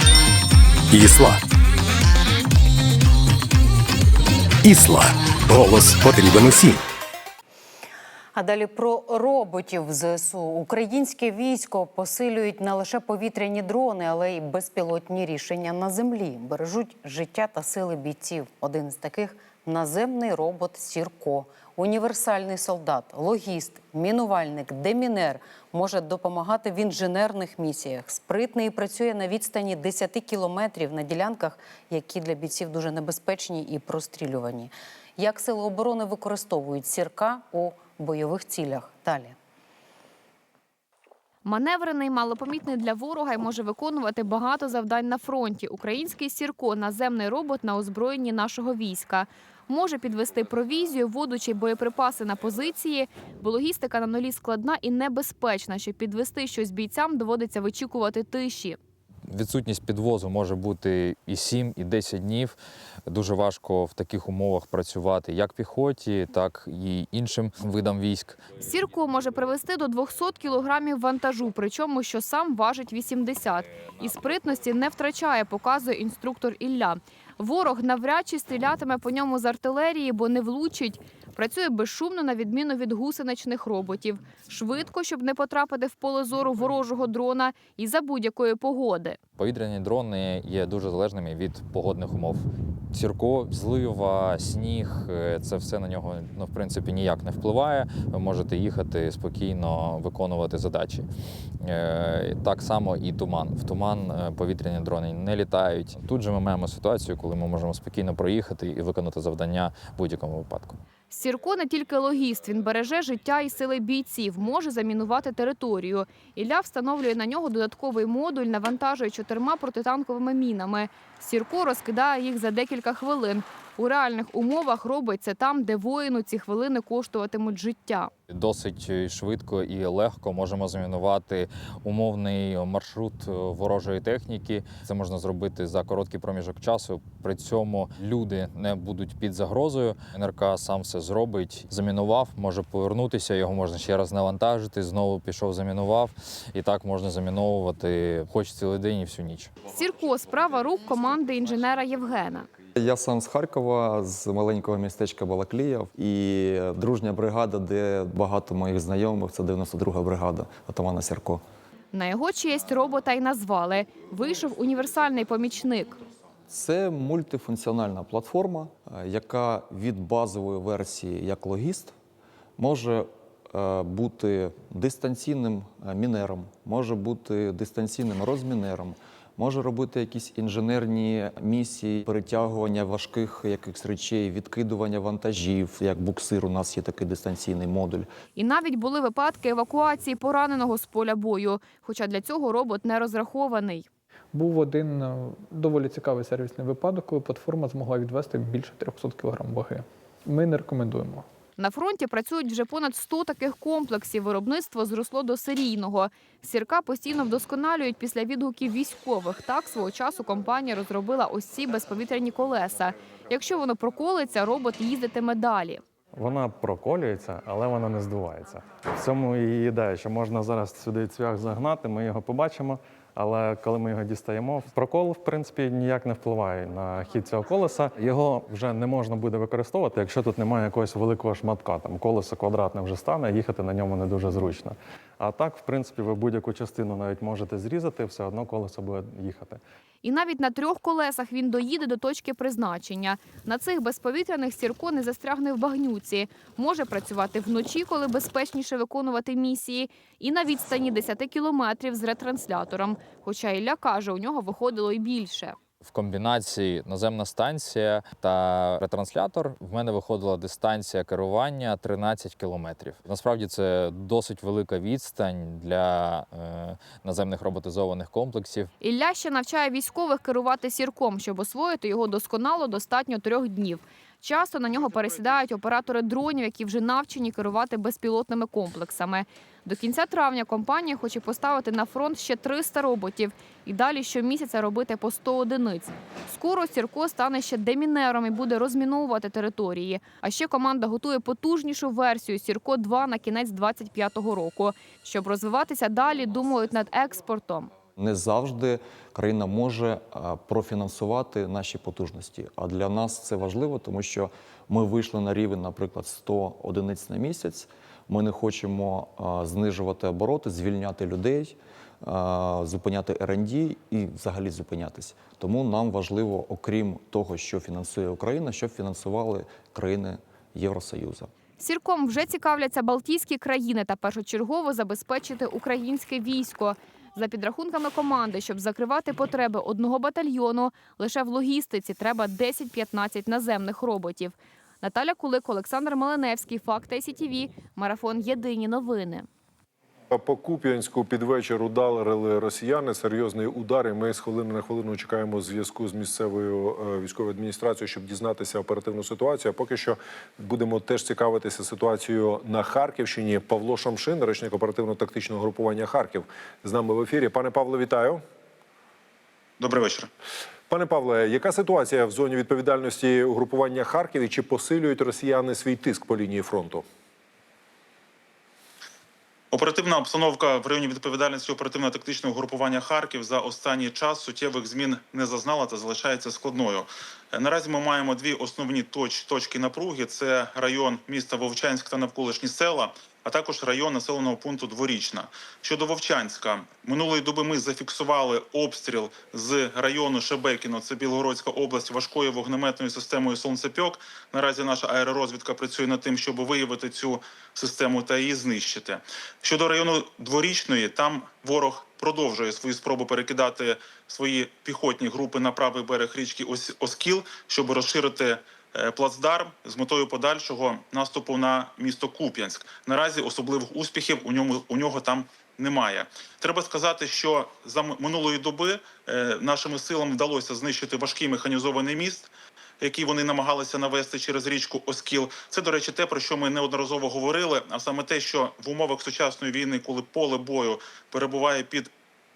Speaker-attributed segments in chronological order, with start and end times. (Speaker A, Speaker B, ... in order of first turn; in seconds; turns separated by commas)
Speaker A: 0.9-1.4, Speaker A: 4.6-6.8, Speaker B: 8.3-39.3, Speaker C: 41.5-58.8, Speaker D: 59.3-62.5, Speaker D: 63.1-68.4, Speaker C: 68.6-89.2, Speaker D: 89.4-101.1, Speaker D: 101.6-110.8, Speaker C: 111.1-128.1, Speaker D: 128.3-149.5, Speaker C: 149.7-152.5, Speaker E: 152.8-161.4, Speaker C: 161.9-166.0, Speaker E: 166.5-171.9, Speaker E: 172.6-188.1, Speaker C: 188.3-193.9, Speaker F: 194.3-201.2, Speaker C: 201.6-215.8, Speaker G: 216.2-218.4, Speaker G: 218.9-239.6, Speaker C: 240.0-255.6, Speaker D: 255.8-268.7, Speaker C: 268.8-297.7, Speaker E: 297.9-321.3, Speaker C: 321.6-339.3, Speaker H: 340.1-358.2, Speaker I: 359.6-360.1, Speaker H: 360.7-366.8, Speaker I: 369.5-422.3, Speaker I: 422.8-431.9